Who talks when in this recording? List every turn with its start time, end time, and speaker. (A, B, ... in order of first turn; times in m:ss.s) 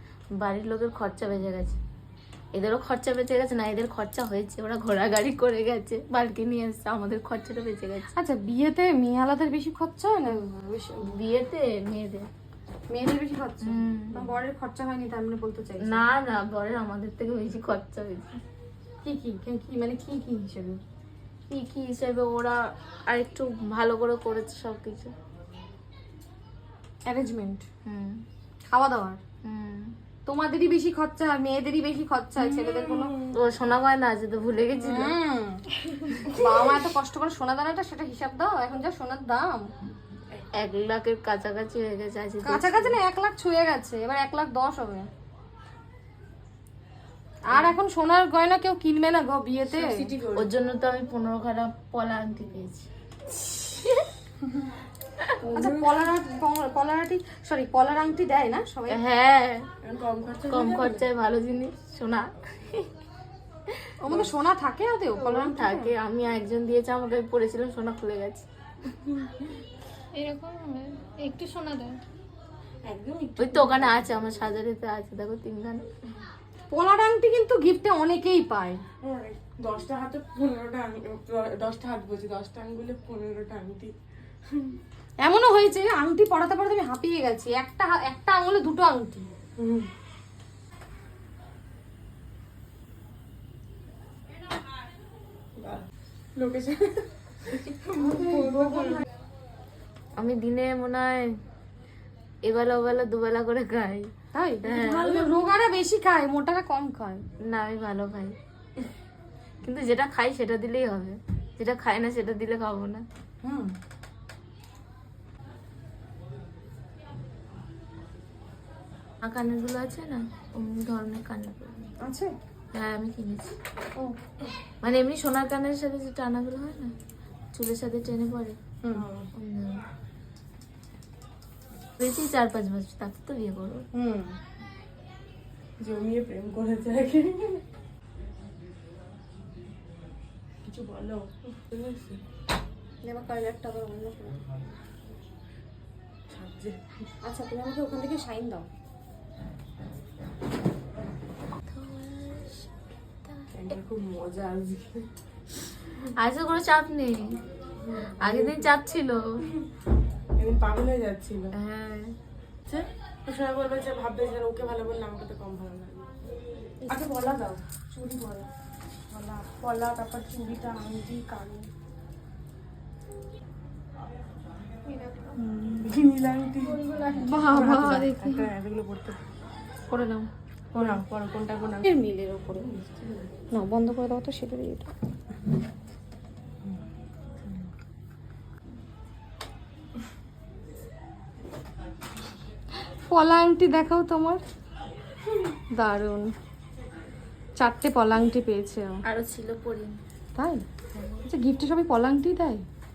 0:00.4-0:01.8 A
0:02.5-0:08.1 A
0:08.2-0:11.2 B
0:11.0-0:12.3 A
0:12.9-0:16.1 B
0:13.6-0:14.3 A
0:15.8-0:18.4 A
0:19.0-0:20.8 B
0:21.5-0:25.1 A
0:27.0-0:27.6 B
0:27.8-0:28.2 A
0:28.7-0:29.2 B
0:29.4-0:30.0 A
0:30.2-0:33.3 B
0:32.4-0:33.4 C
0:33.3-0:35.2 A
0:34.7-0:35.7 B
0:36.2-0:39.7 B
0:40.5-0:43.0 A
0:42.4-0:45.1 B
0:47.5-0:50.1 B
0:49.7-0:50.5 C
0:50.3-0:52.9 A
0:55.4-0:59.0 B
0:55.5-0:55.8 C
0:58.9-0:59.7 A
0:59.8-1:01.0 C
1:00.4-1:02.9 A
1:04.0-1:05.9 B
1:05.2-1:08.4 A
1:10.1-1:12.0 D
1:12.8-1:14.1 C
1:13.4-1:15.8 A
1:16.7-1:18.8 B
1:19.0-1:23.9 C
1:24.5-1:24.7 C
1:25.2-1:29.3 B
1:29.6-1:29.9 C
1:35.6-1:38.8 C
1:38.0-1:39.0 B
1:40.2-1:41.4 A
1:42.4-1:44.1 A
1:44.3-1:47.2 B
1:44.6-1:45.3 A
1:47.4-1:48.4 A
1:49.6-1:53.0 A
1:53.4-1:53.7 B
1:59.2-2:01.8 A
2:02.0-2:02.3 B
2:02.7-2:03.5 A
2:04.8-2:06.9 A
2:07.5-2:08.6 A
2:08.9-2:09.3 C
2:09.3-2:09.8 A
2:12.0-2:13.8 A
2:13.9-2:14.4 B
2:15.8-2:17.6 C
2:20.7-2:22.2 C
2:23.0-2:24.4 B
2:26.3-2:26.8 C
2:27.2-2:28.6 B
2:31.6-2:32.7 A
2:33.2-2:33.5 A
2:33.5-2:35.1 C
2:36.2-2:37.2 A
2:37.9-2:38.7 C
2:38.2-2:39.2 A
2:40.4-2:41.5 C
2:41.6-2:42.1 A
2:43.2-2:46.0 C
2:46.9-2:48.0 C
2:48.0-2:48.4 B
2:49.1-2:51.7 C
2:54.9-2:55.3 D
2:55.4-2:56.0 B
2:55.8-2:59.2 C
2:56.6-2:58.5 B
2:59.9-3:01.0 B
3:00.7-3:01.9 C
3:01.9-3:02.6 B
3:02.6-3:03.3 C
3:03.5-3:04.9 B
3:13.1-3:14.4 B
3:15.7-3:16.3 B
3:17.6-3:19.0 B
3:19.0-3:20.0 A
3:20.4-3:20.6 B
3:21.2-3:22.6 B